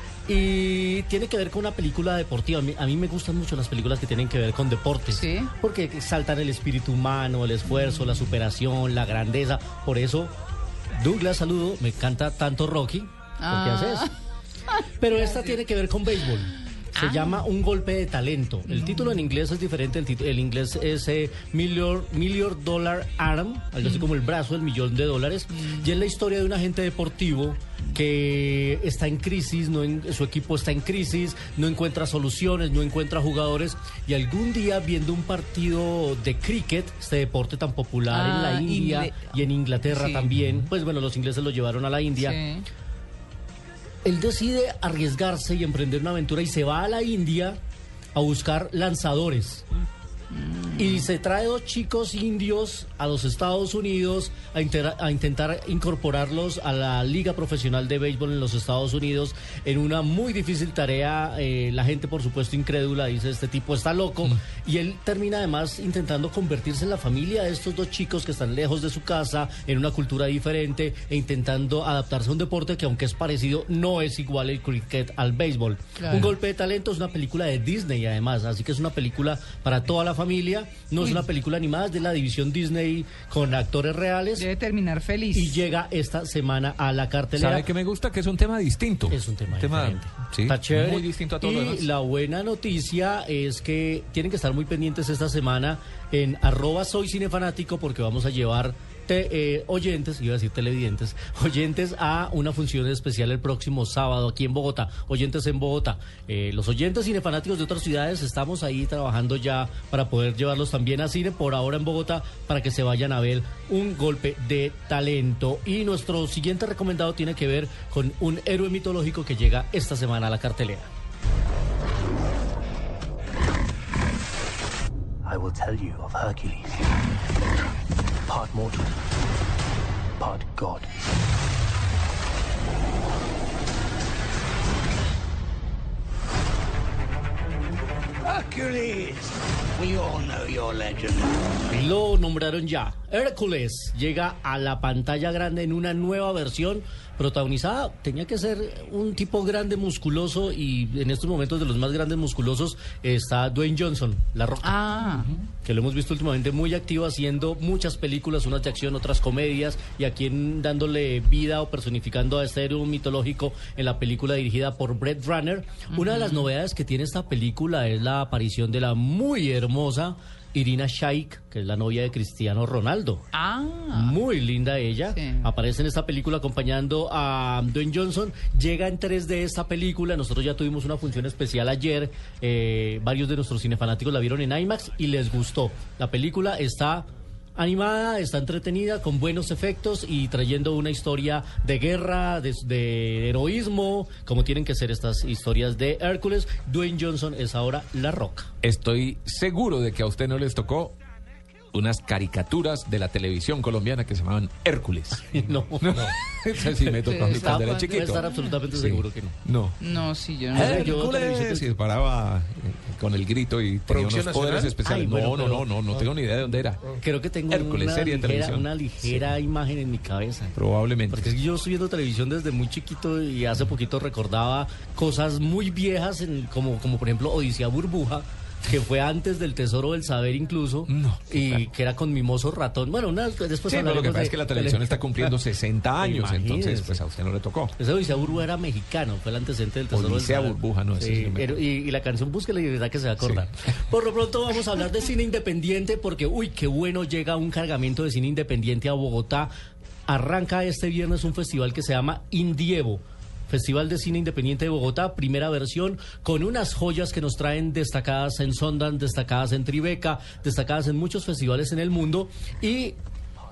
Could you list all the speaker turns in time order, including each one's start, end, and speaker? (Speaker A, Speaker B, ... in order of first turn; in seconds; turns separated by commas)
Speaker A: 0.3-10.3, Speaker B: 5.1-5.5, Speaker A: 10.9-14.1, Speaker B: 13.4-14.1, Speaker A: 15.0-42.4, Speaker B: 17.0-17.4, Speaker B: 18.8-19.1, Speaker B: 38.1-39.3, Speaker B: 39.9-40.3, Speaker B: 42.2-42.6, Speaker A: 44.0-47.6, Speaker A: 48.1-49.6, Speaker B: 50.3-51.1, Speaker A: 50.8-84.5, Speaker B: 76.0-76.3, Speaker B: 84.4-85.6, Speaker A: 85.3-87.6, Speaker C: 87.4-91.9, Speaker A: 89.1-120.9, Speaker D: 125.2-126.8, Speaker D: 128.3-128.9, Speaker D: 130.2-130.9, Speaker E: 138.3-139.3, Speaker E: 139.8-141.2, Speaker A: 141.7-154.8, Speaker B: 154.6-155.3, Speaker A: 155.6-173.2, Speaker B: 165.9-166.5, Speaker B: 173.3-174.2, Speaker A: 173.9-198.5, Speaker B: 175.1-175.5, Speaker C: 198.6-200.9, Speaker C: 201.7-209.8, Speaker A: 205.3-206.1, Speaker B: 207.0-208.4, Speaker A: 207.2-209.4, Speaker B: 209.8-211.0, Speaker C: 210.5-216.8, Speaker A: 210.5-211.7, Speaker D: 214.0-214.6, Speaker A: 214.8-215.7, Speaker A: 217.0-220.5, Speaker C: 217.5-219.3, Speaker C: 220.5-221.3, Speaker A: 221.1-235.3, Speaker C: 230.9-231.6, Speaker C: 233.7-237.8, Speaker A: 236.0-237.0, Speaker A: 237.8-249.5, Speaker C: 239.9-241.6, Speaker A: 250.1-262.9